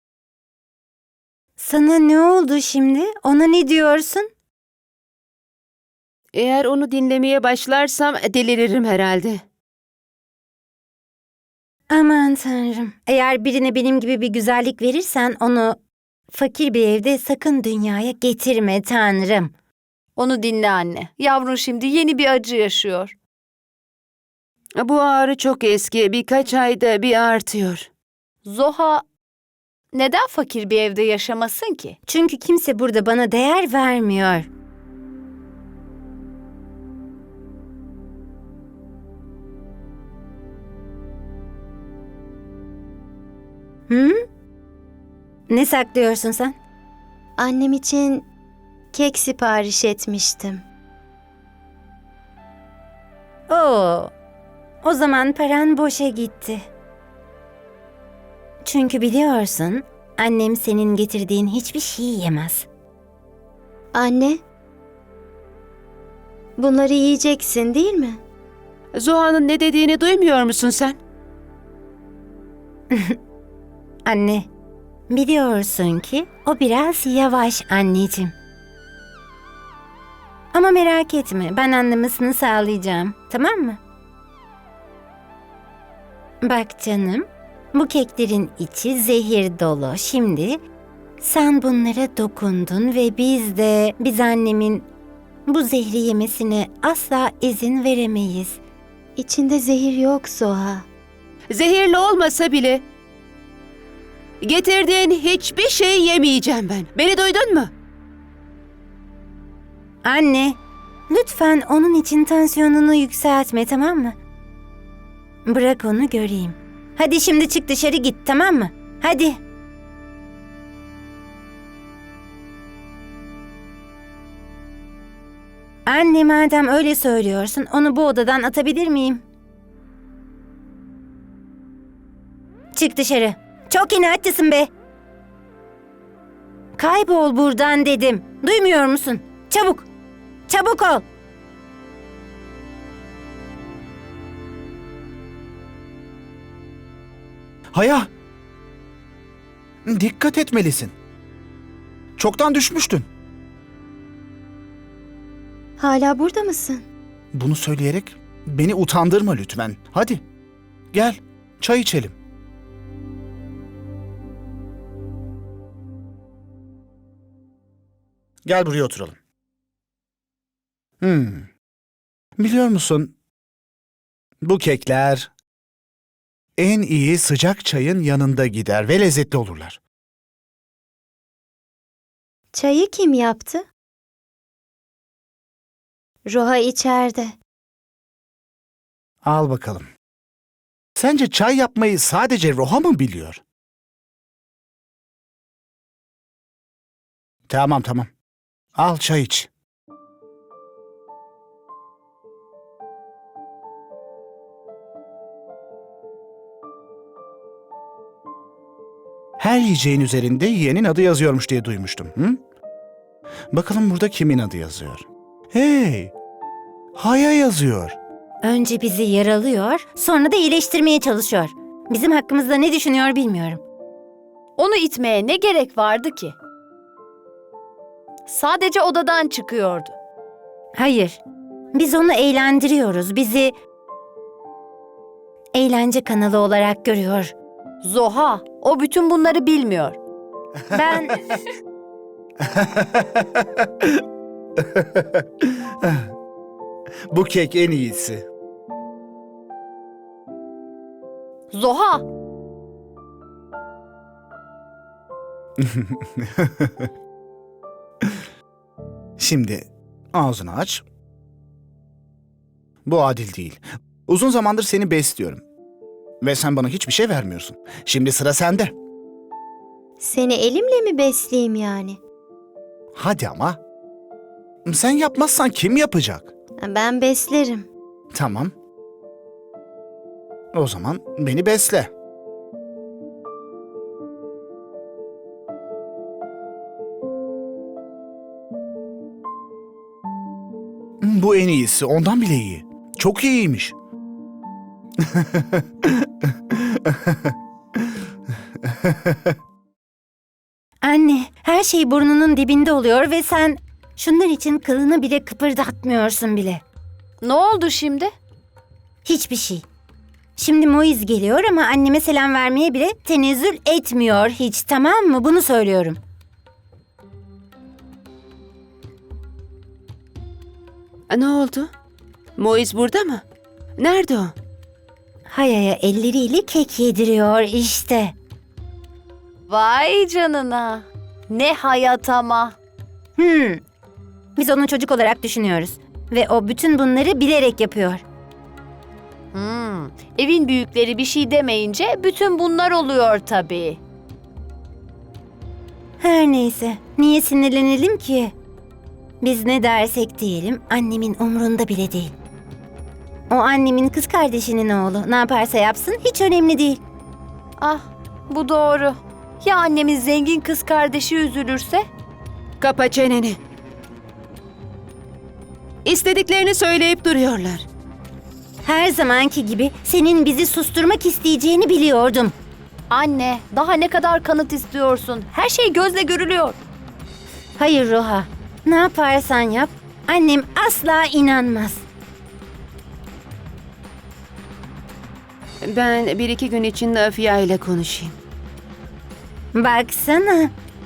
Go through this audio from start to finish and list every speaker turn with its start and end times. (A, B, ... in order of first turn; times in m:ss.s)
0:01.6-0:04.3 A
0:06.3-0:09.4 B
0:11.9-0:15.8 A
0:16.3-0:19.5 A
0:20.2-0:23.1 C
0:24.8-0:27.9 B
0:28.4-0:29.0 C
0:29.9-0:32.0 C
0:32.1-0:34.5 A
0:43.9-0:44.2 A
0:45.5-0:46.6 A
0:47.4-0:48.2 D
0:48.9-0:50.6 D
0:53.5-0:54.1 A
0:54.8-0:56.6 A
0:58.6-1:02.7 A
1:03.9-1:04.4 D
1:06.6-1:08.2 D
1:08.9-1:11.0 B
1:12.9-1:13.2 A
1:14.0-1:14.5 A
1:15.1-1:18.3 A
1:20.5-1:23.8 A
1:26.4-1:30.6 A
1:31.2-1:34.9 A
1:35.5-1:38.6 A
1:39.2-1:40.8 D
1:41.5-1:42.8 B
1:44.4-1:47.7 B
1:50.0-1:50.6 A
1:51.1-1:54.2 A
1:55.4-1:59.4 A
2:05.8-2:09.2 A
2:12.7-2:14.7 A
2:16.8-2:19.8 A
2:20.5-2:21.0 A
2:27.7-2:28.1 E
2:29.8-2:30.9 E
2:32.2-2:33.1 E
2:35.8-2:36.8 D
2:37.3-2:40.2 E
2:40.9-2:42.2 E
2:48.4-2:49.2 E
2:51.0-2:51.5 E
2:52.4-2:53.1 E
2:54.4-2:55.3 E
2:56.6-2:59.8 E
3:02.5-3:03.6 D
3:06.2-3:07.3 D
3:09.2-3:09.9 E
3:11.0-3:13.4 E
3:17.5-3:18.1 E
3:18.8-3:19.5 E
3:29.4-3:32.4 E
3:33.5-3:36.1 E
3:37.0-3:38.0 E
3:38.4-3:43.6 A
3:44.6-3:46.3 C
3:48.3-3:49.9 C
3:50.7-3:51.2 A
3:51.7-3:53.5 A
3:55.5-3:57.3 A
3:57.8-4:00.0 C
4:00.7-4:01.2 A
4:02.5-4:03.9 E
4:04.6-4:06.0 E
4:07.1-4:08.2 E
4:11.5-4:12.0 C
4:15.6-4:16.9 E
4:19.2-4:20.8 E
4:22.8-4:25.4 E
4:26.2-4:28.7 E
4:30.0-4:32.0 D
4:32.9-4:33.6 E
4:34.6-4:36.3 E
4:36.6-4:37.7 D
4:38.1-4:38.5 E
4:40.5-4:41.9 E
4:51.0-4:53.7 E
4:55.0-4:57.3 E
4:58.6-4:59.3 E
5:00.8-5:06.6 A
5:07.2-5:08.1 C
5:09.0-5:09.6 A
5:10.4-5:16.0 A
5:21.1-5:21.7 B
5:22.4-5:23.2 B
5:23.8-5:24.3 B
5:25.3-5:28.1 A
5:29.5-5:32.5 C
5:33.2-5:33.6 A
5:34.4-5:38.0 A
5:39.3-5:43.8 C
5:46.0-5:48.3 A
5:49.2-5:52.1 A
5:53.3-5:56.8 A
5:57.6-6:01.8 C
6:02.6-6:03.4 B
6:05.8-6:07.6 B
6:08.6-6:12.4 A
6:12.9-6:16.6 C
6:17.6-6:21.8 A
6:25.7-6:28.1 B
6:29.5-6:30.5 A